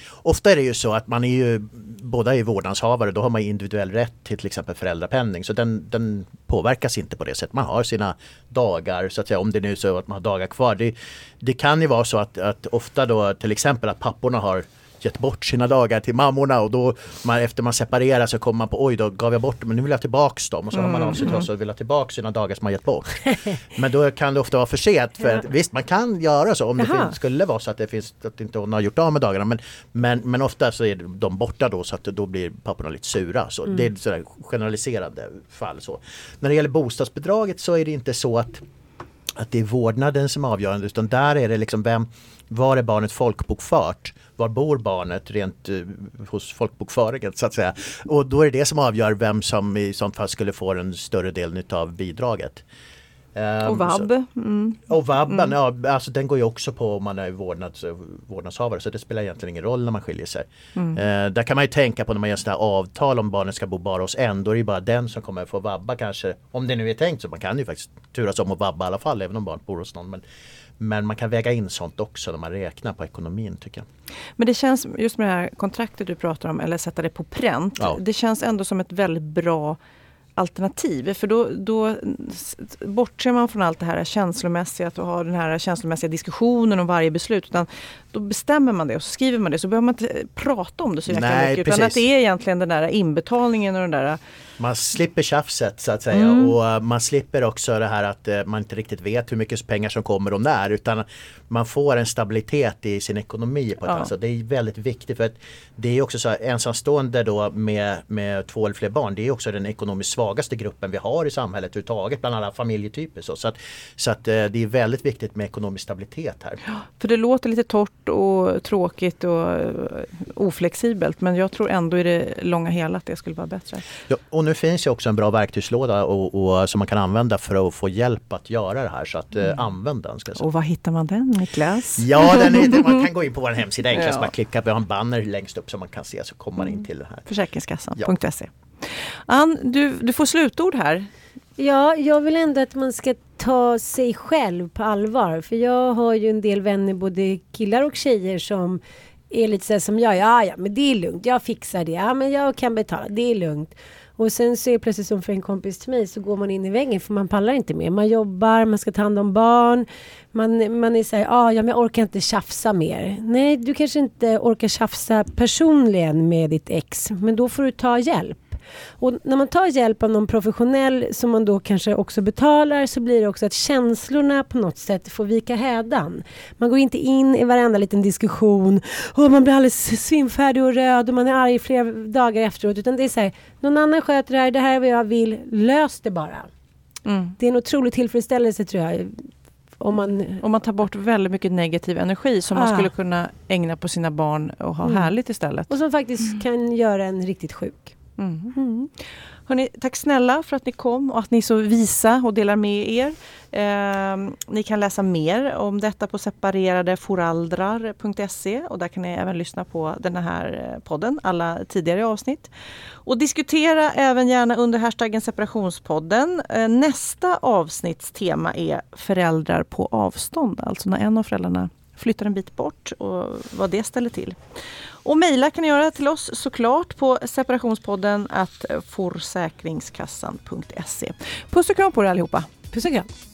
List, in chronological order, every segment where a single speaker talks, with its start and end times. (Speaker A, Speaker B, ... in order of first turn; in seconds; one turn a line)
Speaker A: 0.2-38.6
Speaker B: 20.7-21.5
Speaker C: 26.8-27.1
Speaker A: 39.4-52.6
Speaker A: 53.3-54.1
Speaker B: 53.6-55.5
Speaker A: 54.9-70.2
Speaker B: 60.7-61.0
Speaker A: 70.8-73.9
Speaker B: 74.4-79.8
Speaker B: 80.4-94.2
Speaker A: 91.1-92.0
Speaker A: 94.6-116.6
Speaker B: 96.1-96.5
Speaker B: 103.8-104.1
Speaker B: 116.7-123.8
Speaker A: 124.1-130.4
Speaker B: 130.3-133.0
Speaker A: 132.0-137.3
Speaker B: 133.9-134.3
Speaker B: 136.6-141.1
Speaker C: 141.6-186.5
Speaker B: 187.1-187.3
Speaker C: 187.4-190.4
Speaker B: 190.4-195.7
Speaker C: 192.5-192.9
Speaker C: 194.8-195.1
Speaker C: 195.7-197.9
Speaker B: 198.2-212.5
Speaker B: 213.0-224.4
Speaker B: 225.0-232.5
Speaker C: 232.7-233.1